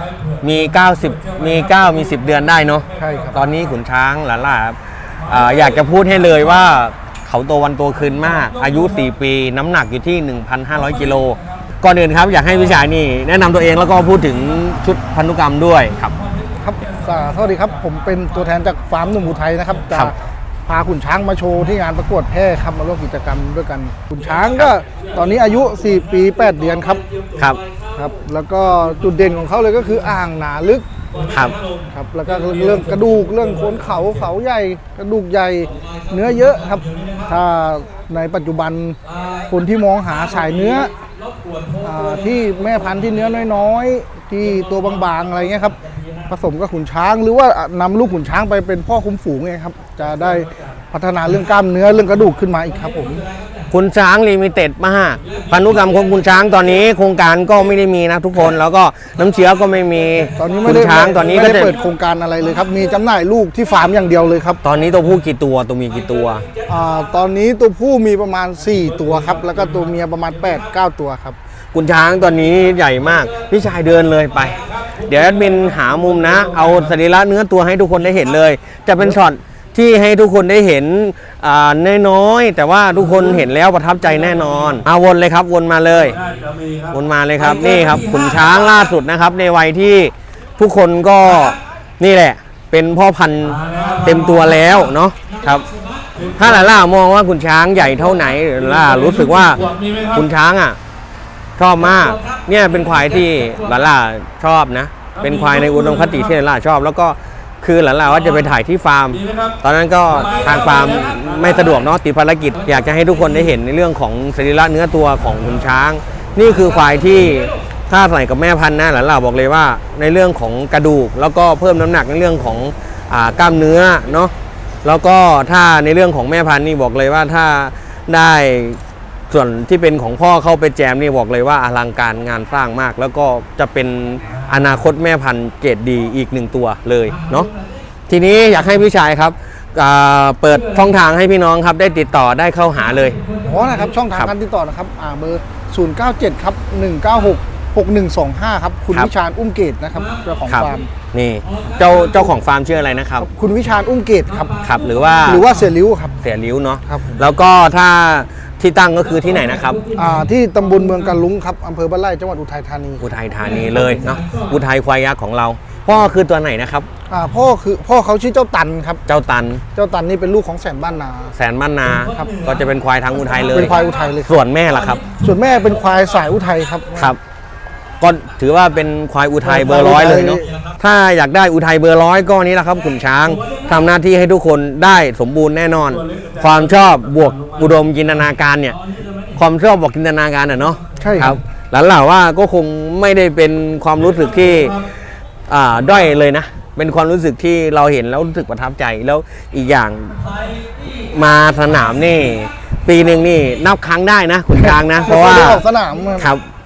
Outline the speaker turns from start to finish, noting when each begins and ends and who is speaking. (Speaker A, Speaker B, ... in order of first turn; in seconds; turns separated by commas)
Speaker A: 0.4-16.1, Speaker B: 3.0-3.4, Speaker B: 16.6-20.1, Speaker B: 20.7-27.0, Speaker B: 28.0-30.9, Speaker A: 31.3-31.6, Speaker B: 31.9-39.0, Speaker B: 39.5-40.9, Speaker B: 41.8-45.8, Speaker B: 46.3-53.2, Speaker A: 53.7-61.8, Speaker B: 60.4-64.6, Speaker A: 64.6-66.5, Speaker B: 66.7-71.4, Speaker A: 71.7-86.2, Speaker A: 86.9-95.7, Speaker A: 96.4-100.8, Speaker A: 101.6-124.3, Speaker A: 124.8-128.8, Speaker A: 129.3-137.5, Speaker A: 138.1-143.2, Speaker B: 143.4-150.9, Speaker A: 150.5-153.3, Speaker B: 153.2-154.6, Speaker A: 154.6-155.5, Speaker B: 155.3-156.2, Speaker A: 156.2-159.8, Speaker B: 156.9-157.2, Speaker B: 160.0-163.2, Speaker A: 163.0-166.9, Speaker B: 167.1-169.0, Speaker A: 169.1-169.6, Speaker B: 169.8-171.3, Speaker A: 171.3-175.0, Speaker B: 172.1-172.4, Speaker B: 173.5-174.4, Speaker B: 175.1-177.1, Speaker A: 178.0-188.8, Speaker B: 179.4-180.5, Speaker A: 189.4-194.9, Speaker B: 191.0-191.4, Speaker A: 195.5-200.2, Speaker A: 200.9-205.6, Speaker B: 204.6-206.3, Speaker A: 206.2-206.4